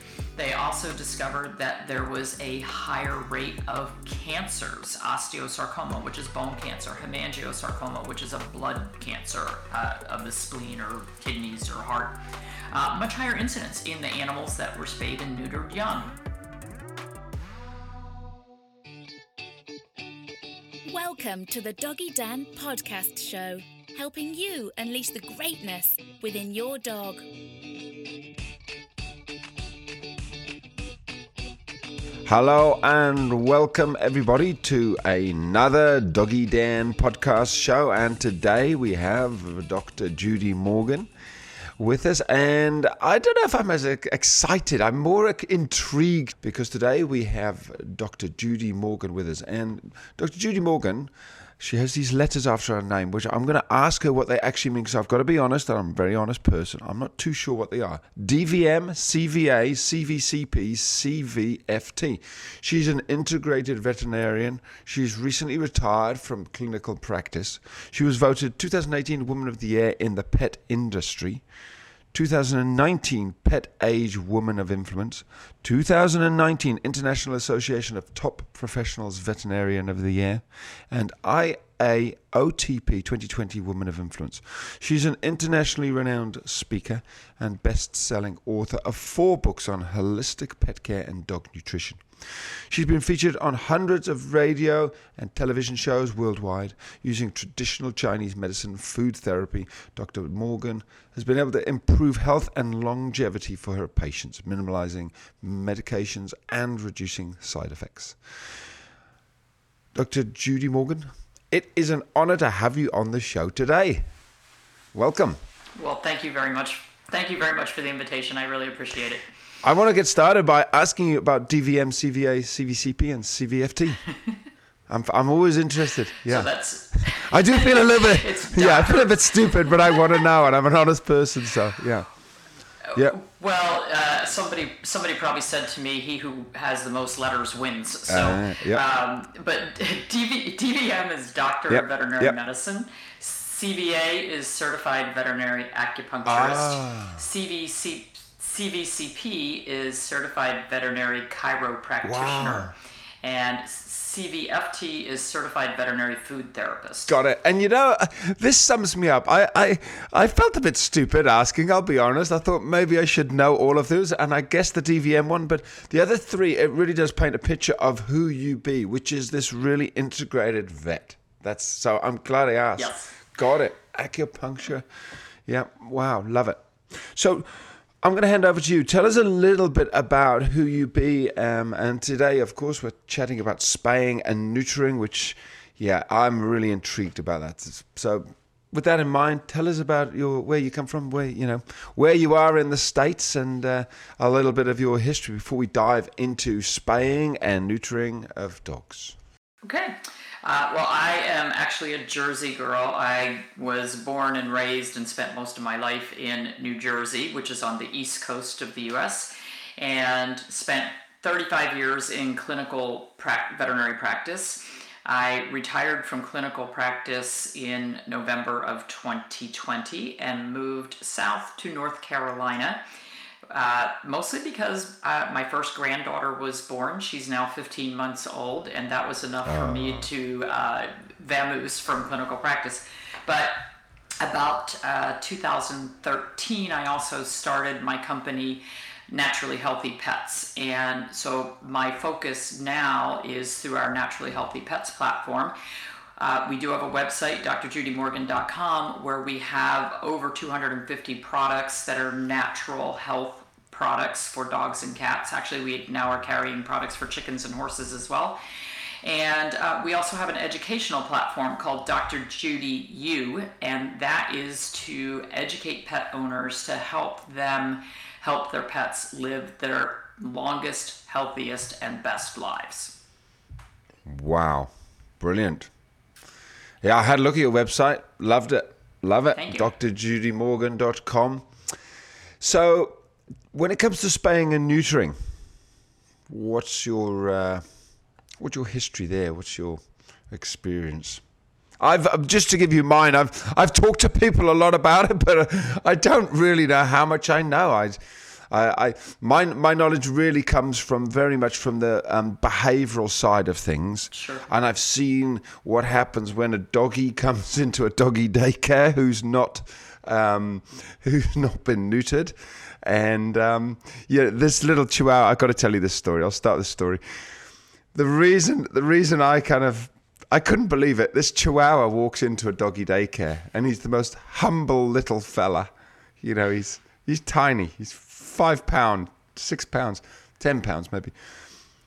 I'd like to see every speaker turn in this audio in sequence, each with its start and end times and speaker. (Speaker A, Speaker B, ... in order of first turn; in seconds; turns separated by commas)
Speaker A: 0.3-12.2, Speaker A: 12.7-16.1, Speaker B: 20.9-27.2, Speaker C: 32.2-41.1, Speaker C: 41.8-71.4, Speaker C: 72.1-108.4, Speaker C: 109.9-114.1, Speaker C: 114.9-115.4, Speaker A: 115.8-119.2, Speaker C: 119.6-124.0, Speaker C: 124.9-132.1, Speaker A: 126.2-130.2, Speaker A: 132.9-157.2, Speaker C: 138.1-138.8, Speaker C: 141.7-142.4, Speaker C: 146.2-147.2, Speaker C: 152.0-152.7, Speaker C: 157.1-174.8, Speaker A: 172.8-173.1, Speaker C: 175.4-199.2, Speaker A: 199.6-222.8, Speaker A: 223.5-233.7, Speaker C: 229.4-230.1, Speaker A: 234.2-245.5, Speaker A: 246.2-258.4, Speaker A: 259.0-273.0, Speaker C: 274.1-275.7, Speaker C: 276.8-281.5, Speaker A: 279.3-279.7, Speaker C: 282.4-283.0, Speaker C: 283.5-285.1, Speaker C: 286.3-287.6, Speaker C: 288.4-291.2, Speaker C: 291.8-317.0, Speaker A: 304.1-304.4, Speaker C: 317.9-331.1